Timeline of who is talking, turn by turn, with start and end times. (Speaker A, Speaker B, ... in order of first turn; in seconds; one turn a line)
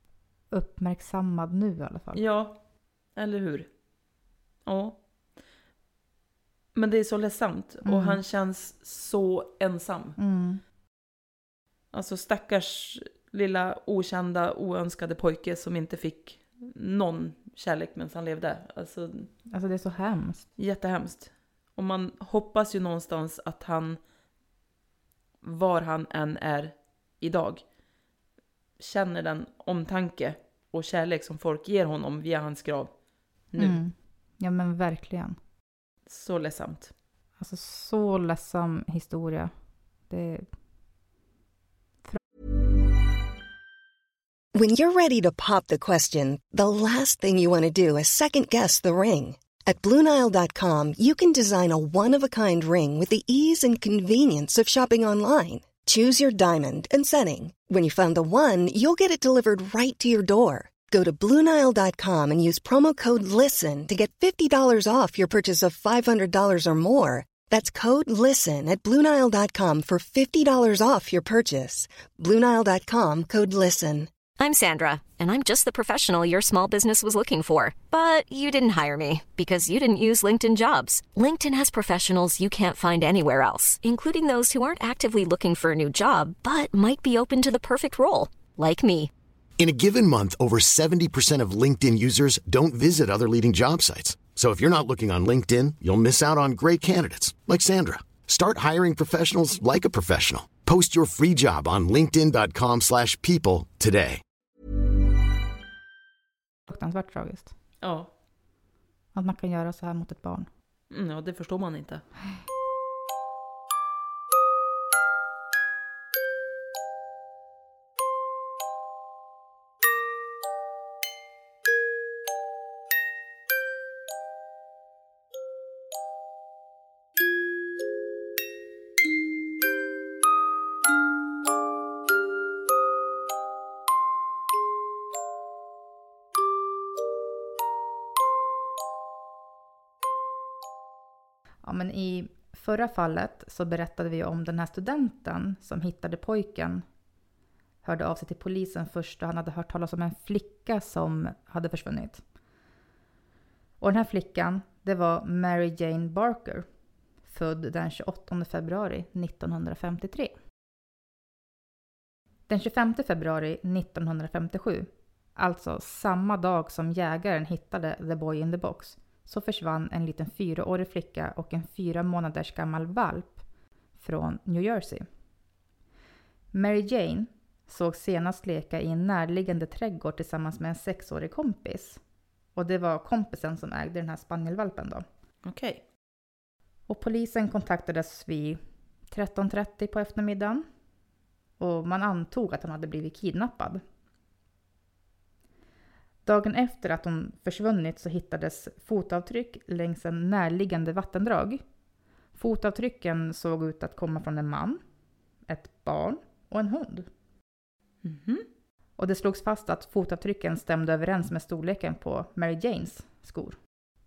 Speaker A: 0.5-2.2
Speaker B: 2.1-2.6
Speaker B: 3.1-3.7
Speaker B: 4.6-5.0
Speaker B: 6.7-10.2
Speaker A: 7.8-8.2
Speaker A: 10.2-10.6
Speaker B: 11.9-19.3
Speaker A: 19.5-20.4
Speaker B: 20.6-24.0
Speaker B: 25.4-27.6
Speaker B: 28.8-32.9
Speaker B: 33.5-33.8
Speaker A: 33.6-35.4
Speaker B: 36.1-36.9
Speaker A: 37.4-39.5
Speaker A: 40.1-40.5
Speaker C: 44.5-74.1
Speaker D: 74.4-89.1
Speaker E: 89.6-104.2
Speaker A: 106.7-107.5
Speaker B: 107.8-108.1
Speaker A: 109.1-110.5
Speaker B: 110.9-112.0
Speaker A: 141.6-146.8
Speaker A: 147.8-152.2
Speaker A: 153.8-156.7
Speaker A: 157.3-160.3
Speaker A: 162.5-173.4
Speaker A: 174.0-175.1
Speaker A: 176.5-182.0
Speaker A: 182.5-185.0
Speaker B: 185.4-185.8
Speaker A: 186.9-188.6
Speaker A: 189.1-190.6
Speaker A: 191.6-193.8
Speaker A: 196.2-201.6
Speaker A: 202.3-204.8
Speaker A: 205.5-207.1
Speaker B: 208.0-208.4
Speaker A: 209.0-213.6